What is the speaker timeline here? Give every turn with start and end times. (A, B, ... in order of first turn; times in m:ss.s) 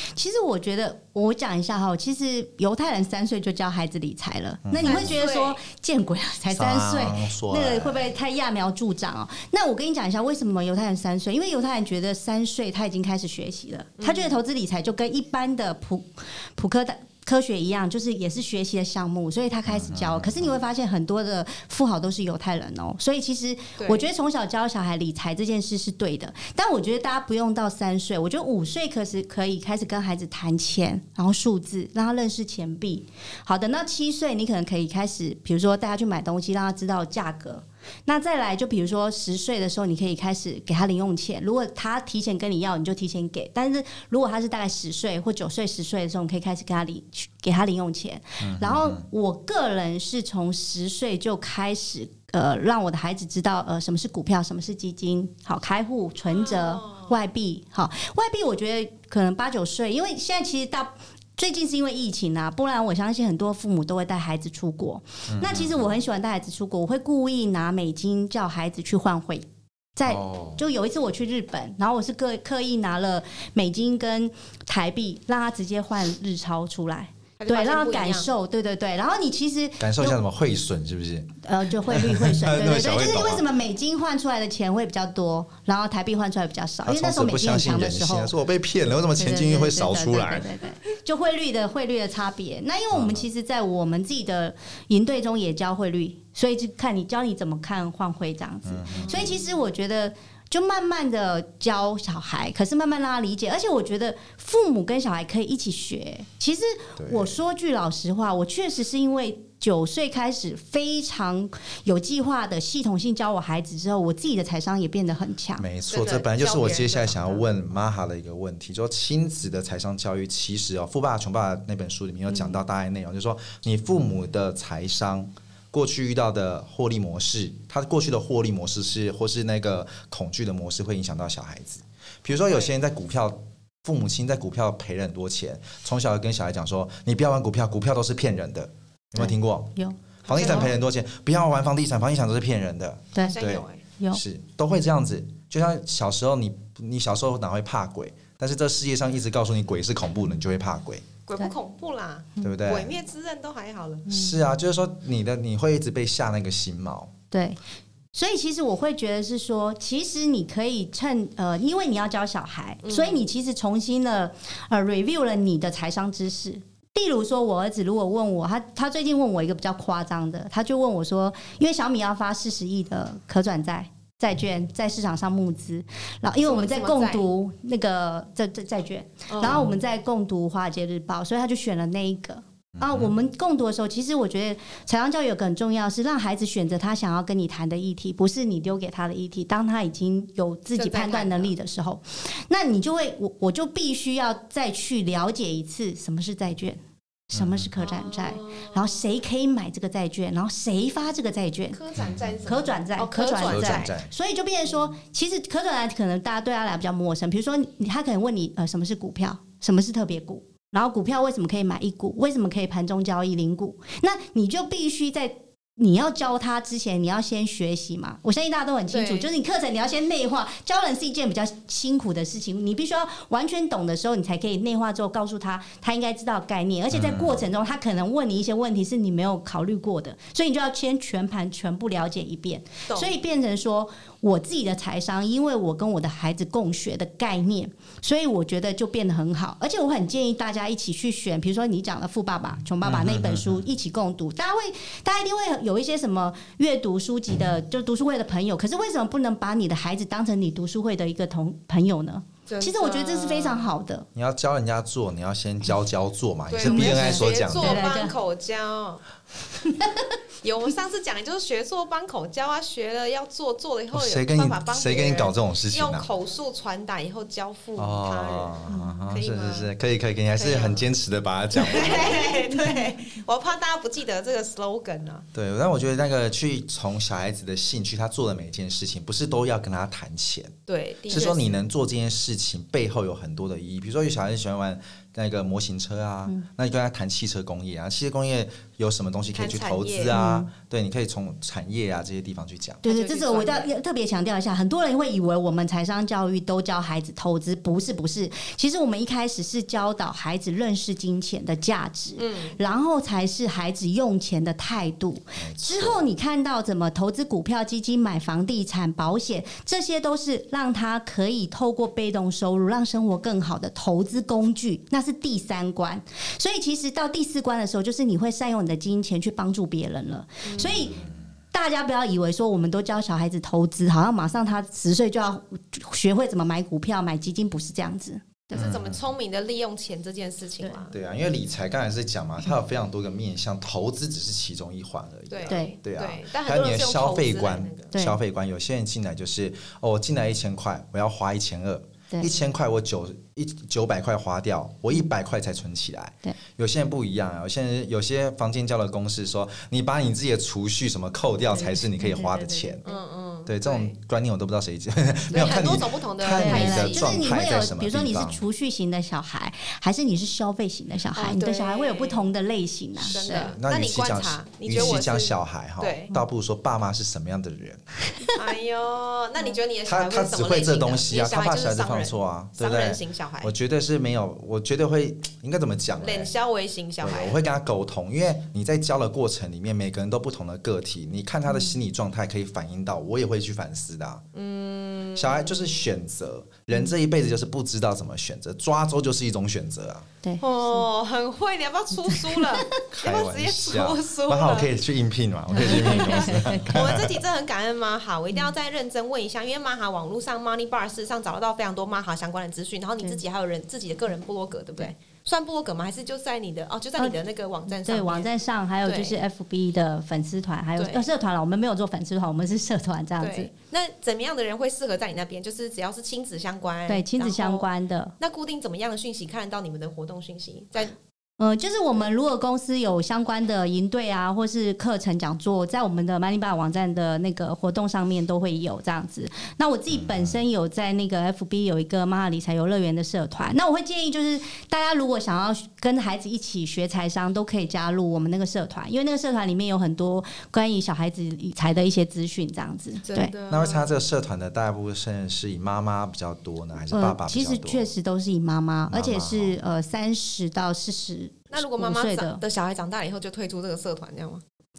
0:00.2-1:09.4 A
0:04.7-0:05.2 B
0:04.8-0:05.6 C
0:06.5-0:08.2 B
0:14.0-0:14.4 C
0:19.7-0:20.5 B
0:23.8-0:24.0 C
0:48.4-0:49.0 B
0:56.3-0:57.2 C
1:05.3-1:06.0 B
1:10.0-1:20.2 A
1:10.1-1:10.6 B
1:17.4-1:18.3 C
1:19.8-1:23.5 B
1:21.4-1:28.3 A
1:26.8-1:30.5 B
1:29.2-1:55.7 A
1:32.9-1:33.3 B
1:38.7-1:39.3 B
1:38.9-1:39.4 C
1:47.0-1:47.4 B
1:55.6-2:31.1 B
1:55.9-1:57.5 C
2:12.3-2:12.7 C
2:19.2-2:20.7 A
2:20.3-2:20.7 C
2:23.2-2:23.8 C
2:31.3-2:34.1 C
2:32.4-2:32.9 B
2:34.1-2:34.5 A
2:34.1-2:37.1 B
2:37.3-2:37.6 A
2:38.2-3:21.8 A
2:42.8-2:43.2 C
2:56.4-2:57.3 C
2:59.3-2:59.6 C
3:02.8-3:03.1 B
3:10.8-3:11.5 C
3:17.3-3:17.7 B
3:17.8-3:19.1 C
3:21.7-3:23.9 C
3:22.5-4:14.1 A
3:23.4-3:24.1 B
3:38.9-3:39.3 C
3:46.9-3:47.5 B
3:52.9-3:53.2 C
4:02.8-4:03.7 B
4:12.5-4:13.7 C
4:14.2-4:17.8 B
4:16.5-4:19.0 C
4:16.6-4:18.1 A
4:19.6-4:20.1 A
4:20.4-4:28.6 C
4:23.9-4:26.1 B
4:27.8-4:32.4 B
4:28.7-4:29.1 A
4:29.1-4:29.7 C
4:30.4-4:30.9 C
4:31.5-4:35.2 C
4:32.6-4:33.0 A
4:35.3-4:40.6 B
4:40.7-4:41.5 C
4:41.1-4:52.8 B
4:49.3-4:50.1 C
4:50.1-4:50.5 A
4:52.8-4:53.7 C
4:52.8-5:28.6 A
5:02.2-5:02.6 C
5:05.4-5:06.0 B
5:20.4-5:20.9 C
5:20.7-5:21.1 B
5:28.5-5:31.0 C
5:28.6-5:29.0 B
5:30.9-5:52.9 B
5:35.3-5:38.0 C
5:35.5-5:35.8 A
5:37.9-5:38.2 A
5:42.1-5:42.4 A
5:51.5-5:52.8 A
5:52.8-5:54.0 C
5:53.5-5:58.4 B
5:55.3-5:57.1 C
5:56.2-6:03.5 A
6:01.1-6:02.2 C
6:03.0-6:06.1 C
6:03.2-6:07.9 B
6:08.3-6:13.5 C
6:09.9-6:16.3 B
6:16.0-6:17.4 C
6:17.0-6:24.2 B
6:24.3-6:25.8 C
6:25.2-6:30.1 B
6:30.2-6:30.8 A
6:30.4-6:34.7 C
6:32.0-6:32.8 A
6:32.9-6:37.1 B
6:35.5-6:36.8 A
6:35.6-6:48.3 C
6:47.0-6:53.5 A
6:48.8-6:49.2 C
6:50.8-6:51.1 C
6:53.2-6:57.7 C
6:56.9-6:58.2 A
6:58.2-7:01.0 C
7:01.4-7:23.3 A
7:09.9-7:10.4 B
7:23.0-7:24.0 C
7:23.5-7:27.9 B
7:26.9-7:32.4 A
7:28.9-7:29.6 B
7:31.5-7:34.4 C